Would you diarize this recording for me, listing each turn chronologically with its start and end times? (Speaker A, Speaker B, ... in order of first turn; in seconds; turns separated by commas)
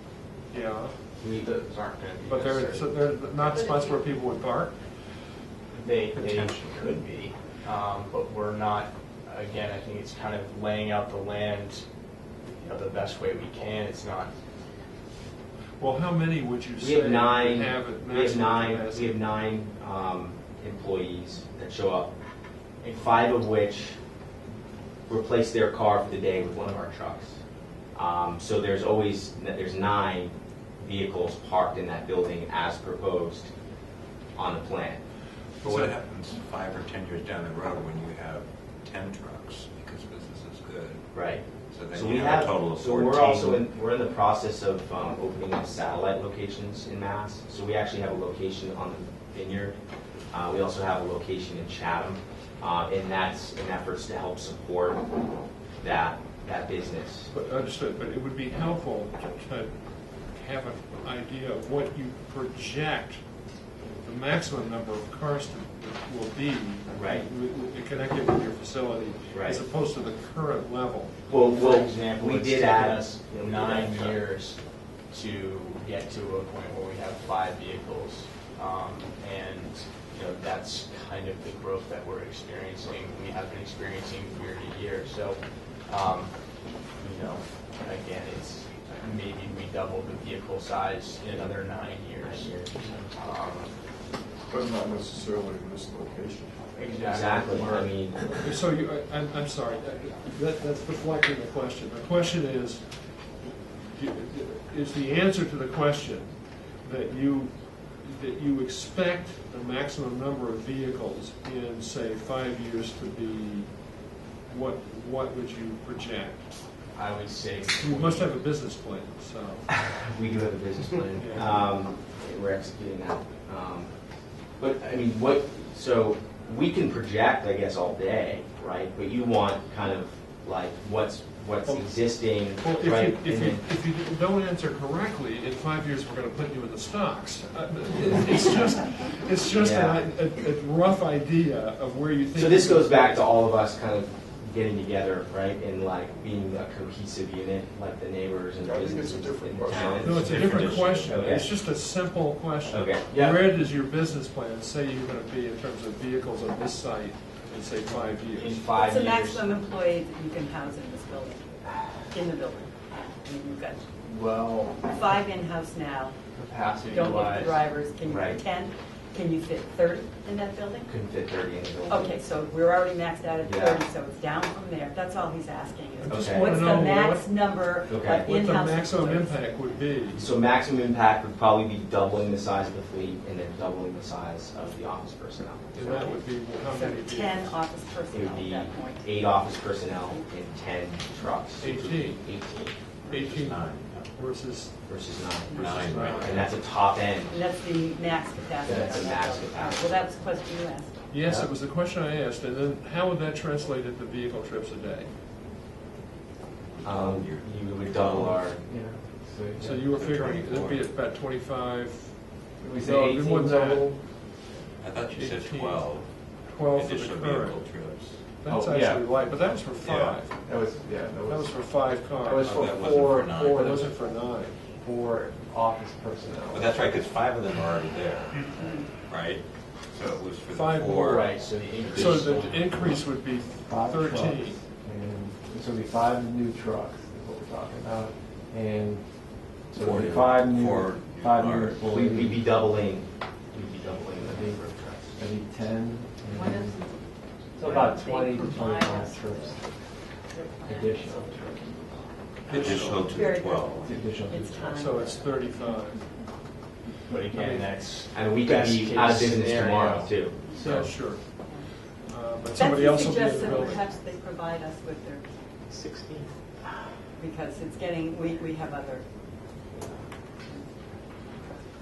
Speaker A: 0.5-0.9, Speaker B: 1.2-1.6, Speaker C: 1.4-3.1, Speaker A: 2.2-4.7, Speaker D: 3.5-3.9, Speaker C: 5.7-11.8, Speaker A: 6.1-6.9, Speaker C: 12.4-14.3, Speaker A: 15.8-19.2, Speaker B: 16.8-22.1, Speaker B: 22.8-24.0, Speaker B: 25.1-27.4, Speaker B: 27.9-33.5, Speaker B: 34.4-35.0, Speaker E: 35.6-41.1, Speaker A: 35.6-35.9, Speaker B: 41.1-49.8, Speaker E: 41.7-43.6, Speaker B: 50.3-55.0, Speaker B: 55.8-57.3, Speaker A: 57.3-63.2, Speaker A: 64.0-71.1, Speaker B: 66.9-67.2, Speaker B: 69.3-69.6, Speaker B: 71.3-74.2, Speaker C: 71.3-93.7, Speaker B: 92.1-93.1, Speaker F: 94.5-96.6, Speaker C: 96.7-98.5, Speaker B: 97.0-98.5, Speaker A: 98.4-103.0, Speaker A: 103.8-116.5, Speaker C: 116.9-118.3, Speaker A: 117.7-119.8, Speaker B: 119.8-123.9, Speaker A: 121.2-121.7, Speaker B: 124.6-133.6, Speaker A: 131.6-143.3, Speaker B: 139.5-140.0, Speaker B: 142.3-150.3, Speaker F: 148.6-150.8, Speaker A: 150.0-158.7, Speaker E: 150.2-151.4, Speaker B: 150.9-151.5, Speaker B: 152.7-153.1, Speaker C: 153.1-153.4, Speaker C: 157.9-159.5, Speaker D: 158.8-161.6, Speaker D: 162.1-163.8, Speaker C: 164.0-164.9, Speaker D: 164.8-166.1, Speaker C: 166.3-167.6, Speaker D: 166.9-170.9, Speaker B: 168.1-168.4, Speaker B: 170.9-172.2, Speaker D: 171.9-179.6, Speaker B: 173.4-173.8, Speaker A: 176.0-177.3, Speaker B: 176.1-176.8, Speaker B: 177.9-178.3, Speaker A: 178.2-180.3, Speaker B: 180.1-186.2, Speaker A: 185.7-187.6, Speaker D: 186.6-190.5, Speaker B: 188.1-192.8, Speaker A: 191.6-192.2, Speaker A: 193.1-194.7, Speaker E: 193.1-194.1, Speaker B: 194.9-195.6, Speaker A: 195.4-196.5, Speaker D: 195.5-195.8, Speaker E: 195.5-196.5, Speaker B: 196.1-197.4, Speaker D: 197.3-201.0, Speaker B: 198.6-200.0, Speaker A: 201.1-205.1, Speaker E: 206.8-208.4, Speaker B: 206.8-208.6, Speaker G: 208.5-209.9, Speaker A: 209.6-212.3, Speaker E: 209.8-210.9, Speaker G: 212.6-214.0, Speaker A: 212.8-213.9, Speaker E: 214.8-218.2, Speaker A: 215.1-217.7, Speaker A: 218.4-220.4, Speaker G: 218.4-219.2, Speaker E: 219.8-220.3, Speaker G: 220.4-224.1, Speaker A: 221.3-222.5, Speaker E: 222.4-223.8, Speaker A: 223.5-224.6, Speaker G: 224.8-226.7, Speaker E: 226.5-228.5, Speaker D: 228.5-228.9, Speaker E: 229.1-232.9, Speaker A: 230.5-234.6, Speaker C: 231.0-232.8, Speaker G: 233.7-239.1, Speaker G: 239.7-242.5, Speaker B: 239.7-240.4, Speaker E: 239.8-241.9, Speaker B: 241.9-245.2, Speaker G: 244.2-244.6, Speaker G: 245.2-246.8, Speaker D: 246.3-247.0, Speaker G: 247.6-249.7, Speaker D: 247.6-249.7, Speaker D: 250.3-251.5, Speaker G: 250.6-252.0, Speaker A: 252.5-253.2, Speaker E: 252.5-253.9, Speaker D: 253.0-255.5, Speaker G: 253.8-254.7, Speaker A: 254.6-256.2, Speaker C: 257.1-260.9, Speaker A: 257.3-257.8, Speaker B: 258.1-260.9, Speaker A: 260.5-261.2, Speaker A: 262.0-263.8, Speaker D: 262.5-265.3, Speaker C: 265.7-266.2, Speaker D: 267.2-269.0